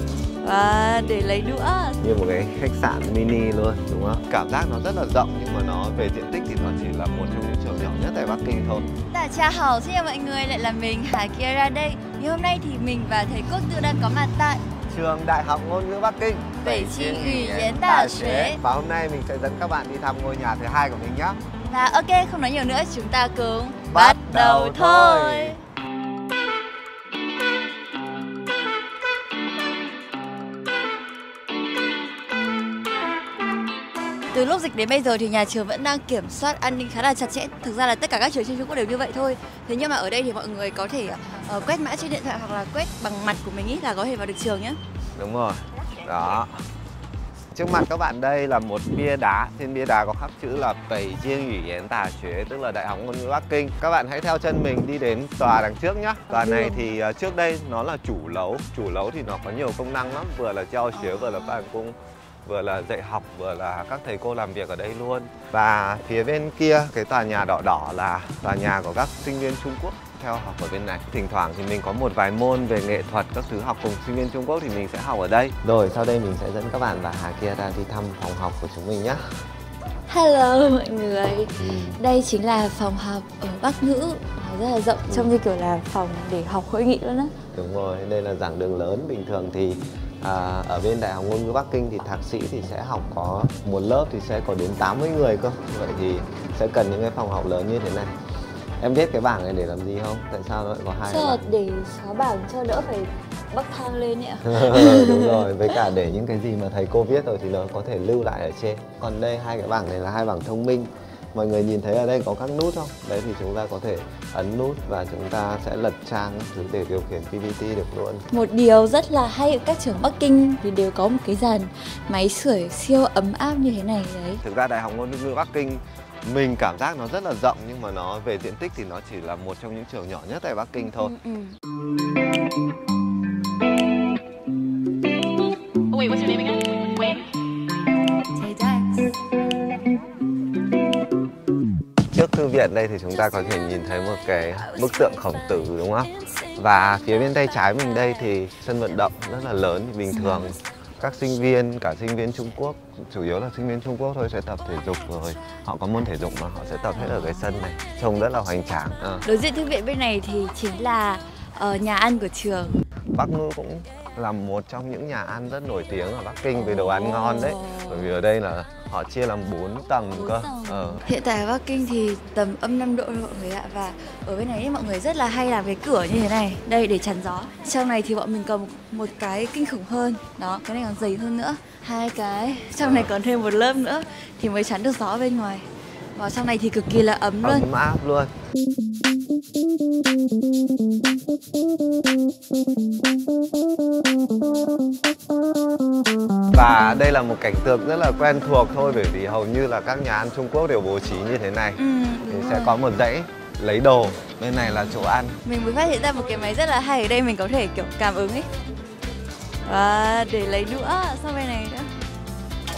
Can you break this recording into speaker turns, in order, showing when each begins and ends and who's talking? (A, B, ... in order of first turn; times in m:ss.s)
0:00.4-0:02.0 A
0:02.0-0:08.9 B
0:09.1-0:14.6 A
0:14.9-0:21.4 B
0:16.6-0:18.6 A
0:21.7-0:25.6 A
0:23.9-0:25.6 B
0:34.3-0:44.8 A
0:45.2-0:46.6 B
0:47.5-1:19.2 B
0:56.3-0:56.9 A
1:00.9-1:01.7 A
1:20.1-1:27.3 A
1:21.6-1:22.0 B
1:25.1-1:25.4 B
1:27.5-1:38.1 B
1:38.8-1:41.5 B
1:41.1-1:45.8 A
1:44.4-1:58.3 B
1:58.3-2:04.4 A
2:04.4-2:11.1 B
2:11.0-2:11.5 A
2:16.0-2:16.4 A
2:18.4-2:19.1 A
2:22.1-2:39.2 B
2:30.1-2:30.5 A
2:37.0-2:37.4 A
2:39.2-2:42.8 A
2:43.1-2:51.0 B
2:46.5-2:48.1 A
2:50.1-3:07.7 A
3:02.8-3:03.1 B
3:07.4-3:08.3 B
3:16.5-3:25.4 B
3:21.8-3:22.8 A
3:25.4-3:28.5 A
3:29.6-3:31.9 A